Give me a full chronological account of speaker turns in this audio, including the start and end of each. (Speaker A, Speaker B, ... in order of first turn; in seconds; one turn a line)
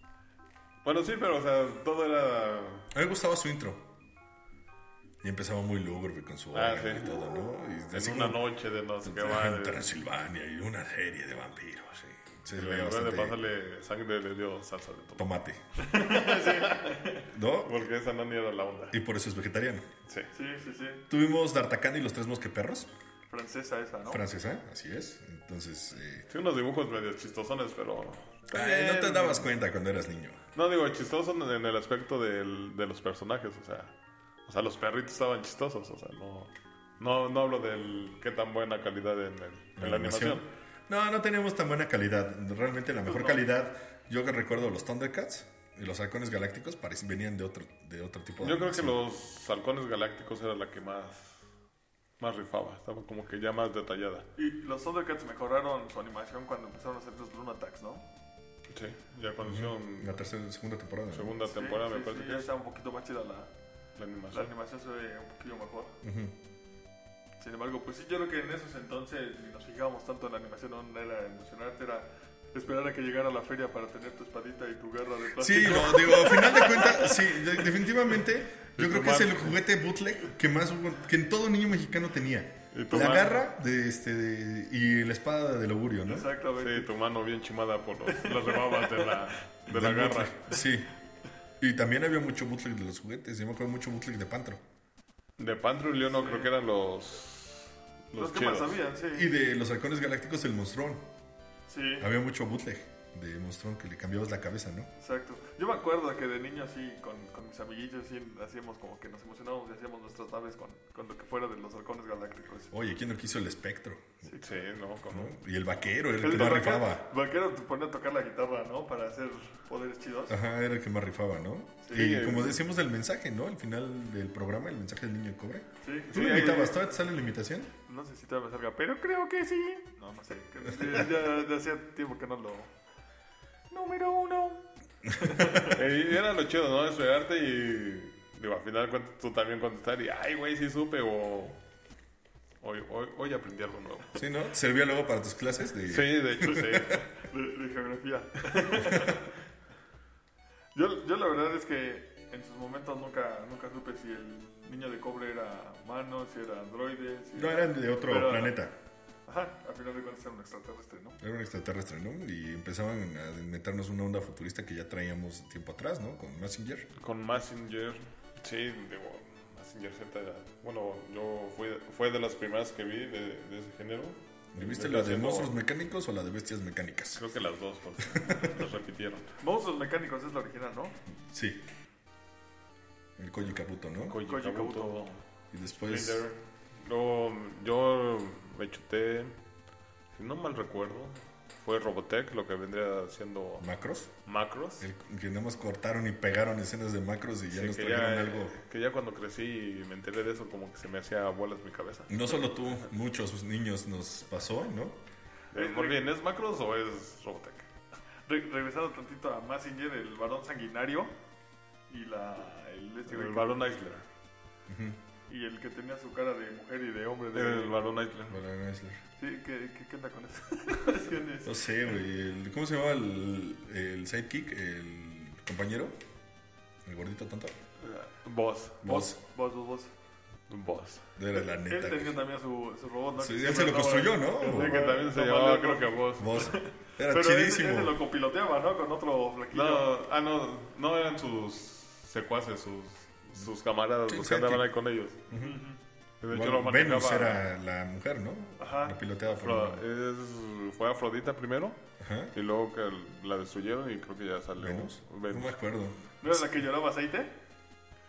Speaker A: 0.8-2.9
Speaker B: 2.9-3.8
Speaker B: 5.2-8.4
Speaker A: 6.5-9.9
Speaker B: 9.0-13.4
Speaker A: 12.5-15.3
Speaker B: 15.2-15.6
Speaker C: 15.8-17.2
Speaker A: 16.0-16.9
Speaker B: 17.3-17.8
Speaker A: 17.6-19.0
Speaker B: 18.9-19.9
Speaker C: 20.3-21.0
Speaker B: 21.1-22.9
Speaker C: 23.3-24.2
Speaker B: 24.1-26.2
Speaker A: 26.3-29.5
Speaker B: 28.5-30.4
Speaker A: 30.5-33.9
Speaker A: 34.5-40.5
Speaker B: 39.8-48.9
Speaker C: 43.0-43.4
Speaker A: 48.4-51.5
Speaker A: 52.2-54.3
Speaker C: 54.4-58.0
Speaker A: 58.7-60.1
Speaker B: 59.4-61.4
Speaker A: 61.1-62.5
Speaker C: 61.4-63.5
Speaker A: 64.0-64.5
Speaker C: 64.3-66.0
Speaker B: 66.0-66.3
Speaker C: 67.4-77.6
Speaker B: 75.4-86.3
Speaker A: 78.7-79.6
Speaker A: 82.7-83.4
Speaker C: 86.0-86.9
Speaker A: 86.6-90.5
Speaker C: 88.2-89.1
Speaker B: 89.7-90.9
Speaker B: 91.6-94.6
Speaker A: 95.4-98.8
Speaker C: 96.1-96.5
Speaker C: 98.1-99.3
Speaker B: 99.1-101.0
Speaker C: 101.7-102.1
Speaker B: 102.0-104.9
Speaker C: 105.0-112.7
Speaker B: 112.7-114.2
Speaker C: 114.2-114.6
Speaker A: 114.4-115.3
Speaker B: 115.1-117.0
Speaker C: 116.2-120.4
Speaker B: 120.3-127.7
Speaker C: 121.8-122.1
Speaker A: 121.9-122.6
Speaker C: 125.8-126.9
Speaker A: 126.1-126.7
Speaker C: 127.8-132.7
Speaker C: 133.7-135.8
Speaker A: 135.6-141.6
Speaker A: 142.6-144.2
Speaker B: 144.1-147.0
Speaker A: 145.8-147.1
Speaker C: 147.3-149.3
Speaker C: 150.7-158.6
Speaker B: 157.3-158.7
Speaker C: 159.3-161.2
Speaker B: 161.2-166.9
Speaker A: 167.0-175.5
Speaker B: 174.5-177.2
Speaker A: 177.1-179.3
Speaker B: 178.1-178.5
Speaker C: 179.4-180.9
Speaker B: 181.3-181.6
Speaker B: 183.2-184.2
Speaker A: 184.1-185.2
Speaker C: 184.2-185.0
Speaker B: 185.5-186.2
Speaker A: 185.8-189.3
Speaker A: 190.1-193.7
Speaker B: 193.6-194.1
Speaker A: 194.2-194.9
Speaker B: 194.8-198.5
Speaker A: 197.5-202.3
Speaker B: 202.1-205.0
Speaker C: 205.5-206.0
Speaker A: 205.5-207.7
Speaker C: 208.3-211.1
Speaker C: 211.9-213.7
Speaker A: 213.1-214.1
Speaker B: 214.7-215.0
Speaker C: 215.3-217.8
Speaker A: 217.3-218.4
Speaker B: 218.3-219.0
Speaker C: 219.2-221.6
Speaker B: 221.4-225.9
Speaker B: 226.8-227.6
Speaker A: 227.8-228.8
Speaker B: 228.8-229.2
Speaker C: 228.8-229.9
Speaker A: 230.5-231.1
Speaker B: 231.2-232.2
Speaker C: 231.3-239.9
Speaker B: 233.2-234.8
Speaker A: 234.4-236.5
Speaker B: 236.2-238.0
Speaker A: 239.5-245.2
Speaker B: 244.1-244.7
Speaker B: 245.3-245.6
Speaker C: 245.3-245.8
Speaker A: 246.2-247.4
Speaker B: 246.3-249.8
Speaker C: 248.6-249.0
Speaker A: 249.3-251.8
Speaker B: 252.0-252.3
Speaker A: 252.3-255.6
Speaker B: 254.6-256.4
Speaker C: 256.2-257.3